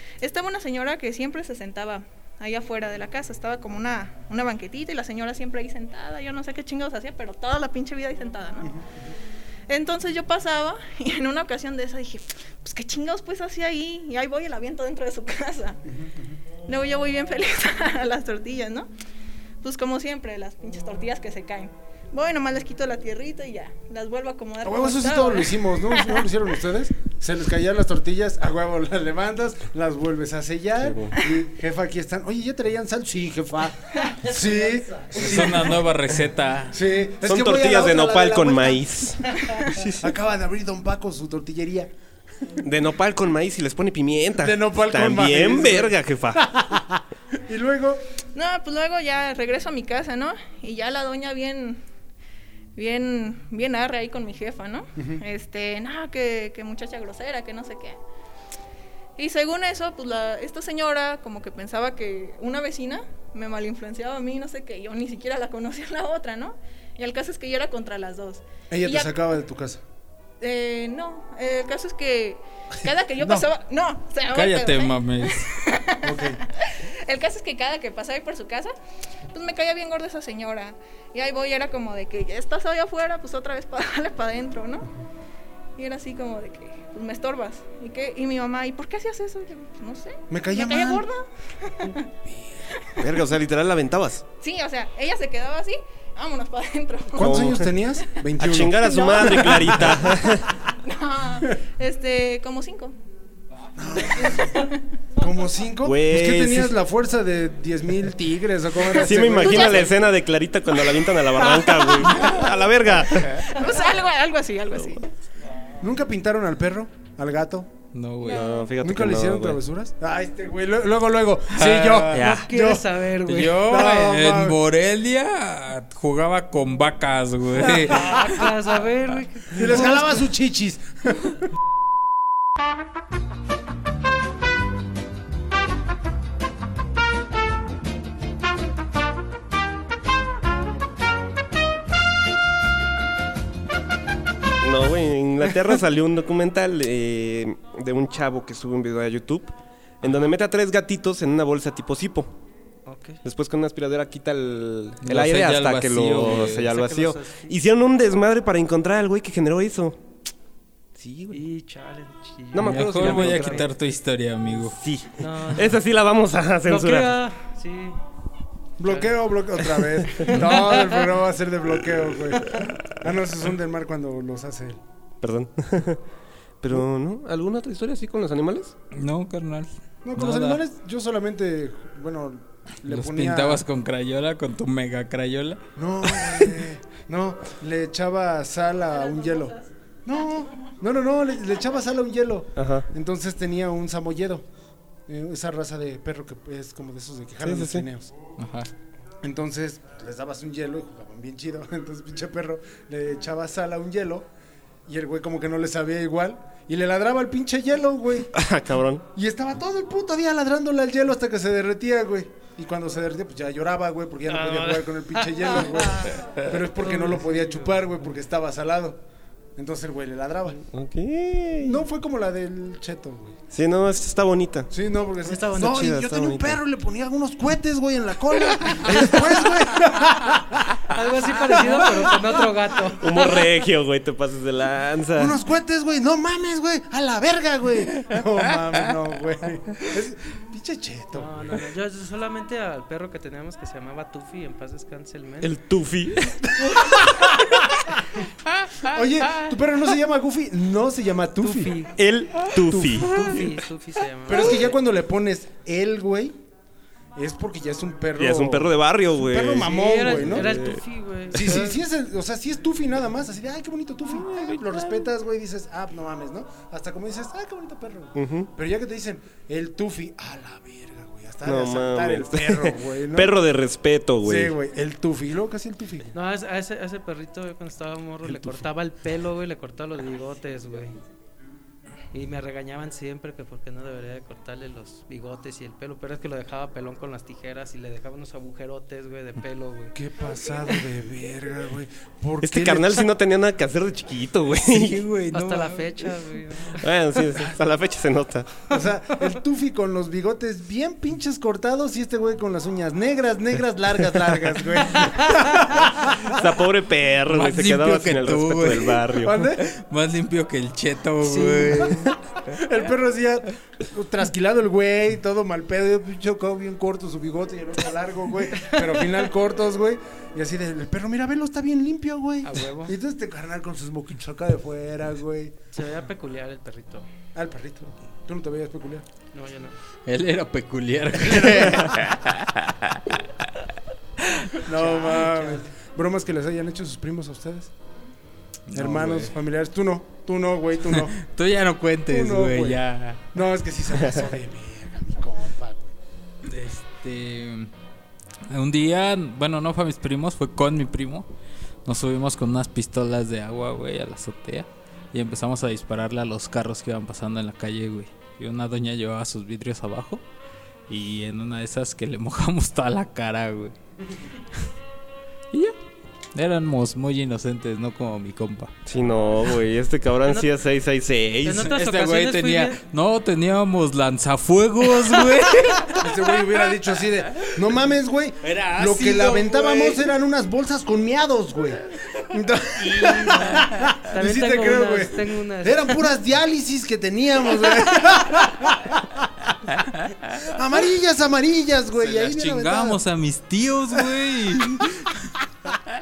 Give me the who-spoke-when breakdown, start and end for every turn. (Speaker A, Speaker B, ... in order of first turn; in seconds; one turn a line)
Speaker A: 0.2-8.7
Speaker B: 8.6-9.1
Speaker A: 9.7-15.8
Speaker B: 15.8-16.4
Speaker A: 16.7-18.9
Speaker A: 19.6-26.3
Speaker B: 24.6-35.8
Speaker C: 30.8-31.1
Speaker D: 35.1-36.8
Speaker B: 36.7-39.1
Speaker C: 37.2-40.1
Speaker B: 39.8-41.9
Speaker C: 42.6-46.4
Speaker B: 44.4-48.0
Speaker A: 48.3-51.8
Speaker A: 52.8-58.0
Speaker B: 55.0-55.2
Speaker A: 59.2-69.1
Speaker B: 68.7-69.8
Speaker A: 70.4-78.7
Speaker B: 73.2-73.5
Speaker D: 74.3-75.5
Speaker B: 76.0-76.4
Speaker A: 79.3-84.9
Speaker A: 85.8-92.1
Speaker B: 90.3-91.0
Speaker B: 92.3-92.6
Speaker C: 93.0-94.2
Speaker A: 94.4-97.5
Speaker B: 97.1-100.2
Speaker C: 97.2-97.7
Speaker C: 98.4-100.5
Speaker A: 98.8-99.8
Speaker A: 100.6-102.9
Speaker B: 103.8-104.6
Speaker A: 104.2-104.8
Speaker B: 105.2-109.9
Speaker C: 105.8-106.7
Speaker C: 108.9-113.6
Speaker A: 109.2-109.9
Speaker A: 113.3-115.1
Speaker B: 115.8-117.7
Speaker D: 117.9-118.5
Speaker A: 118.2-118.7
Speaker C: 118.3-119.6
Speaker B: 118.8-122.9
Speaker D: 121.5-122.4
Speaker E: 122.1-123.7
Speaker D: 123.2-128.2
Speaker B: 123.5-124.6
Speaker B: 127.8-128.3
Speaker E: 127.8-130.1
Speaker B: 129.5-131.4
Speaker C: 144.6-152.3
Speaker E: 152.8-153.2
Speaker C: 153.2-160.0
Speaker D: 155.0-156.7
Speaker E: 156.3-157.5
Speaker C: 160.9-161.4
Speaker E: 161.3-163.7
Speaker C: 162.5-163.7
Speaker D: 162.6-164.8
Speaker C: 164.7-167.2
Speaker E: 165.2-165.8
Speaker E: 166.6-168.0
Speaker B: 168.8-174.8
Speaker E: 168.8-169.2
Speaker E: 170.3-170.9
Speaker C: 175.2-176.0
Speaker C: 176.6-178.7
Speaker D: 178.9-180.6
Speaker B: 180.0-183.6
Speaker D: 182.8-185.6
Speaker B: 185.8-194.4
Speaker D: 186.1-186.6
Speaker A: 189.0-189.7
Speaker C: 192.6-192.8
Speaker B: 195.1-198.1
Speaker C: 197.4-197.8
Speaker D: 198.4-198.7
Speaker B: 199.2-204.3
Speaker B: 204.9-208.3
Speaker C: 208.3-209.0
Speaker B: 209.1-219.0
Speaker E: 214.3-216.1
Speaker E: 216.8-218.0
Speaker B: 219.6-220.6
Speaker C: 220.6-221.8
Speaker B: 221.6-223.4
Speaker C: 223.5-224.7
Speaker B: 224.7-230.8
Speaker E: 225.2-225.9
Speaker C: 225.5-226.6
Speaker E: 230.9-233.5
Speaker B: 231.6-232.4
Speaker C: 232.9-235.4
Speaker B: 235.1-241.6
Speaker E: 241.1-245.5
Speaker C: 245.4-246.9
Speaker B: 246.9-247.8
Speaker B: 248.8-251.8
Speaker E: 251.4-251.9
Speaker C: 251.9-253.5
Speaker B: 252.6-253.2
Speaker E: 253.0-254.8
Speaker B: 254.2-256.4
Speaker B: 257.1-260.8
Speaker C: 258.2-260.8
Speaker E: 259.6-261.8
Speaker B: 261.3-273.4
Speaker C: 264.2-264.9
Speaker C: 268.1-268.5
Speaker C: 271.4-274.5
Speaker B: 274.2-276.1
Speaker E: 276.1-280.9
Speaker B: 278.2-278.6
Speaker E: 282.1-289.9
Speaker B: 289.9-293.1
Speaker C: 292.4-295.0
Speaker D: 294.6-296.1
Speaker E: 295.3-296.9
Speaker C: 296.7-298.6
Speaker B: 298.7-306.5
Speaker C: 306.1-309.4
Speaker D: 307.3-312.1
Speaker B: 309.2-309.7
Speaker B: 311.2-325.6
Speaker E: 322.4-322.9
Speaker E: 325.7-327.1
Speaker B: 327.3-329.1
Speaker E: 329.3-329.7
Speaker D: 330.1-333.2
Speaker B: 331.1-332.1
Speaker D: 334.2-334.6
Speaker B: 334.6-337.7
Speaker E: 334.7-335.6
Speaker D: 338.7-339.3
Speaker B: 338.7-341.2
Speaker D: 341.0-343.2
Speaker B: 342.1-342.8
Speaker B: 343.3-345.9
Speaker D: 346.4-347.7
Speaker D: 348.5-351.3
Speaker D: 351.8-360.2
Speaker D: 360.9-363.7
Speaker D: 366.3-368.7
Speaker C: 368.9-371.7
Speaker E: 370.2-370.5
Speaker E: 371.4-372.8
Speaker D: 371.6-376.0
Speaker B: 376.0-389.5
Speaker D: 378.4-380.0
Speaker D: 382.8-383.9
Speaker E: 384.1-386.0
Speaker D: 389.8-390.1
Speaker B: 390.3-393.0
Speaker D: 391.9-395.3
Speaker B: 393.9-395.1